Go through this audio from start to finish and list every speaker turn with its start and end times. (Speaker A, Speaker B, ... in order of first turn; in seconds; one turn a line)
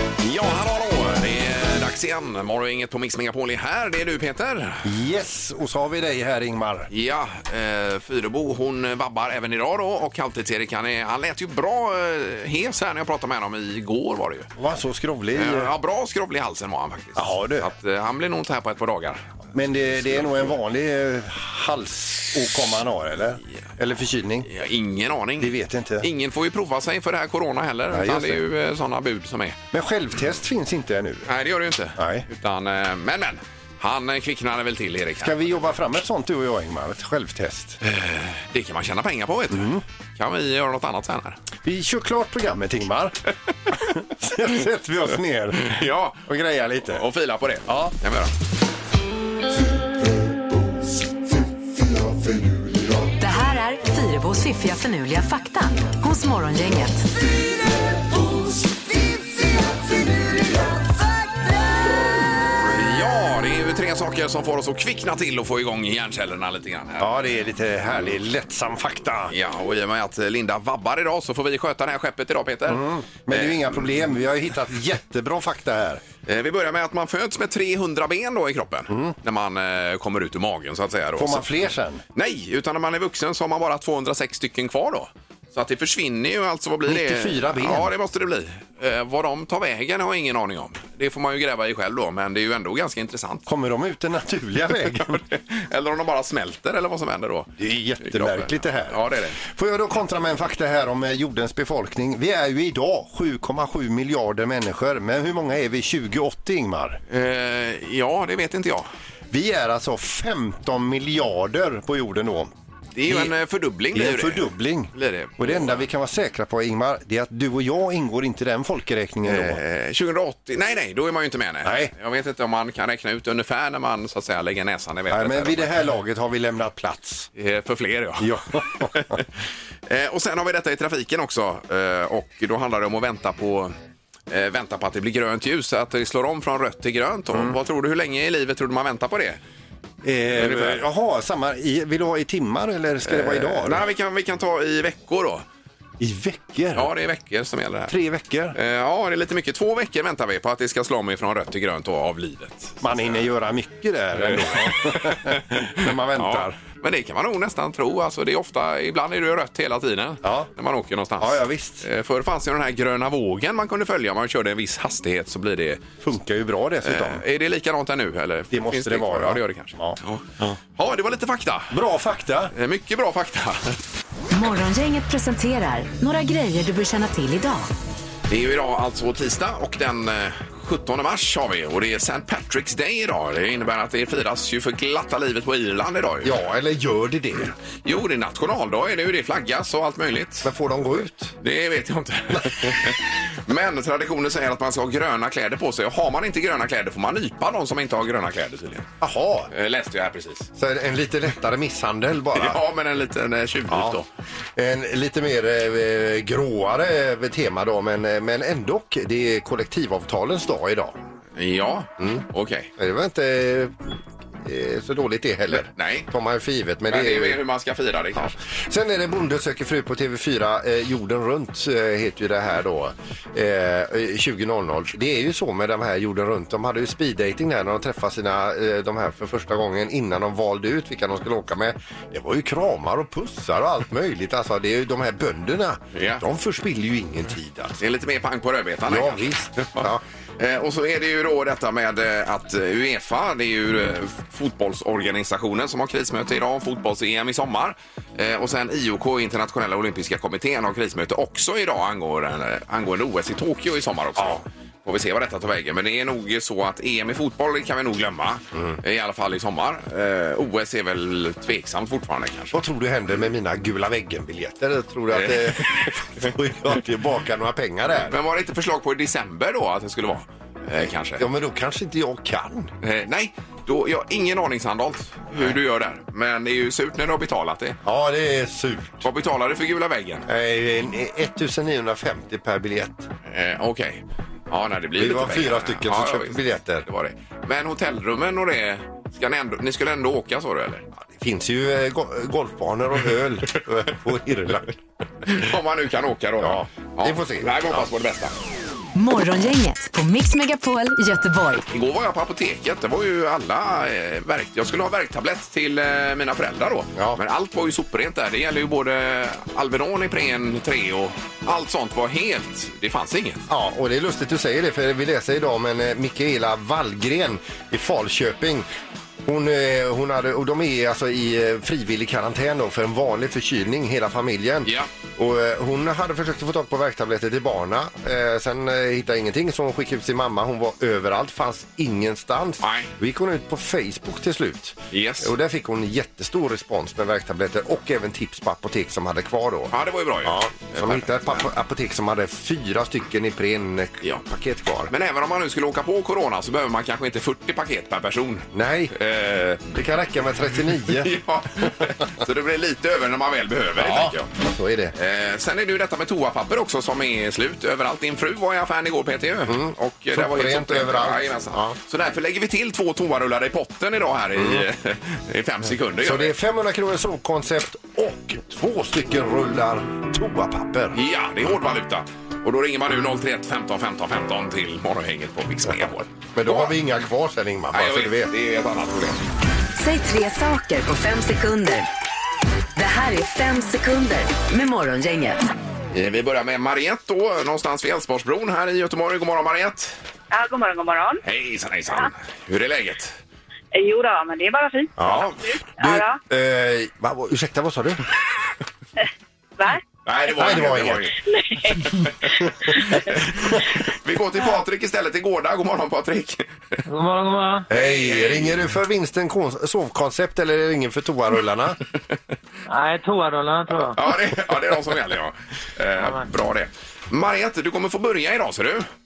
Speaker A: 0.2-4.8
Speaker B: 4.8-6.9
Speaker A: 6.9-14.5
Speaker B: 14.6-15.7
Speaker A: 15.3-19.2
Speaker B: 17.1-17.7
Speaker B: 19.5-24.5
Speaker A: 19.9-20.5
Speaker A: 24.4-29.6
Speaker B: 25.4-26.1
Speaker B: 27.9-28.4
Speaker B: 29.7-31.3
Speaker A: 31.3-35.7
Speaker B: 32.0-32.2
Speaker B: 35.2-37.8
Speaker A: 37.8-41.4
Speaker B: 39.5-39.8
Speaker B: 41.6-43.1
Speaker B: 43.8-45.7
Speaker A: 45.5-46.3
Speaker B: 46.3-47.0
Speaker A: 46.9-48.3
Speaker B: 47.7-47.9
Speaker B: 52.3-52.7
Speaker C: 53.2-57.1
Speaker A: 62.6-67.1
Speaker B: 67.0-69.3
Speaker A: 69.3-73.7
Speaker B: 72.7-76.0
Speaker A: 76.2-81.5
Speaker B: 78.9-79.1
Speaker B: 81.2-82.0
Speaker A: 82.1-93.5
Speaker B: 86.9-87.9
Speaker B: 93.5-95.2
Speaker A: 95.1-99.4
Speaker B: 97.6-107.0
Speaker A: 107.1-108.9
Speaker B: 109.3-112.5
Speaker A: 112.9-115.8
Speaker B: 113.1-113.3
Speaker B: 113.9-119.6
Speaker A: 119.2-125.7
Speaker B: 121.6-121.9
Speaker B: 125.1-127.3
Speaker A: 127.3-129.2
Speaker B: 128.2-129.1
Speaker A: 129.9-133.7
Speaker A: 134.3-139.4
Speaker B: 140.0-143.8
Speaker A: 140.3-140.8
Speaker A: 143.0-145.4
Speaker B: 146.0-146.9
Speaker A: 146.7-147.9
Speaker B: 147.9-148.6
Speaker A: 148.5-153.2
Speaker B: 152.8-156.6
Speaker A: 154.2-165.9
Speaker B: 160.2-160.5
Speaker B: 161.2-161.8
Speaker B: 166.0-167.2
Speaker A: 166.8-171.7
Speaker B: 168.5-170.5
Speaker B: 171.7-172.5
Speaker A: 172.5-173.8
Speaker C: 174.3-177.7
Speaker A: 178.3-186.4
Speaker B: 186.2-187.5
Speaker A: 187.8-190.5
Speaker B: 190.4-191.3
Speaker A: 191.4-198.9
Speaker B: 192.3-192.8
Speaker B: 199.0-199.5
Speaker A: 199.5-200.5
Speaker B: 200.6-202.6
Speaker A: 202.3-204.1
Speaker B: 203.7-203.9
Speaker B: 204.6-210.9
Speaker A: 211.3-212.7
Speaker B: 212.0-212.2
Speaker B: 212.8-217.4
Speaker A: 215.5-216.1
Speaker A: 216.9-218.3
Speaker B: 218.2-237.8
Speaker A: 235.9-236.2
Speaker A: 237.8-239.8
Speaker B: 238.9-240.0
Speaker A: 240.4-262.6
Speaker B: 254.2-254.4
Speaker B: 262.5-268.2
Speaker A: 265.1-266.3
Speaker A: 268.1-271.2
Speaker B: 270.8-272.7
Speaker A: 272.8-277.8
Speaker B: 277.8-279.0
Speaker A: 279.0-280.2
Speaker B: 280.3-283.1
Speaker A: 283.3-290.8
Speaker B: 285.0-286.8
Speaker B: 291.0-294.7
Speaker A: 295.2-298.3
Speaker B: 296.4-297.9
Speaker C: 298.9-301.6
Speaker A: 301.7-313.4
Speaker B: 306.9-307.2
Speaker B: 313.5-318.6
Speaker B: 319.2-339.7
Speaker A: 332.6-332.9
Speaker A: 334.9-335.3
Speaker A: 339.7-341.4
Speaker B: 340.2-344.9
Speaker A: 344.9-349.7
Speaker B: 348.5-348.9
Speaker B: 349.6-351.1
Speaker A: 350.8-354.3
Speaker B: 353.8-354.9
Speaker A: 354.9-366.3
Speaker B: 359.5-361.8
Speaker B: 364.4-364.6
Speaker B: 366.0-371.0
Speaker A: 370.9-376.7
Speaker B: 376.3-378.3
Speaker A: 377.7-379.2
Speaker C: 379.8-381.9
Speaker C: 382.7-385.4
Speaker A: 385.9-389.9
Speaker D: 390.3-391.2
Speaker A: 391.2-393.1
Speaker D: 393.7-396.2
Speaker B: 395.0-398.0
Speaker A: 395.0-395.4
Speaker D: 399.6-400.5
Speaker A: 400.1-401.1
Speaker B: 400.3-401.1
Speaker D: 401.2-402.1
Speaker A: 402.9-406.8
Speaker E: 406.9-407.7
Speaker B: 407.7-411.8
Speaker A: 407.7-408.6
Speaker E: 412.7-414.0
Speaker A: 413.9-418.9
Speaker E: 416.0-416.2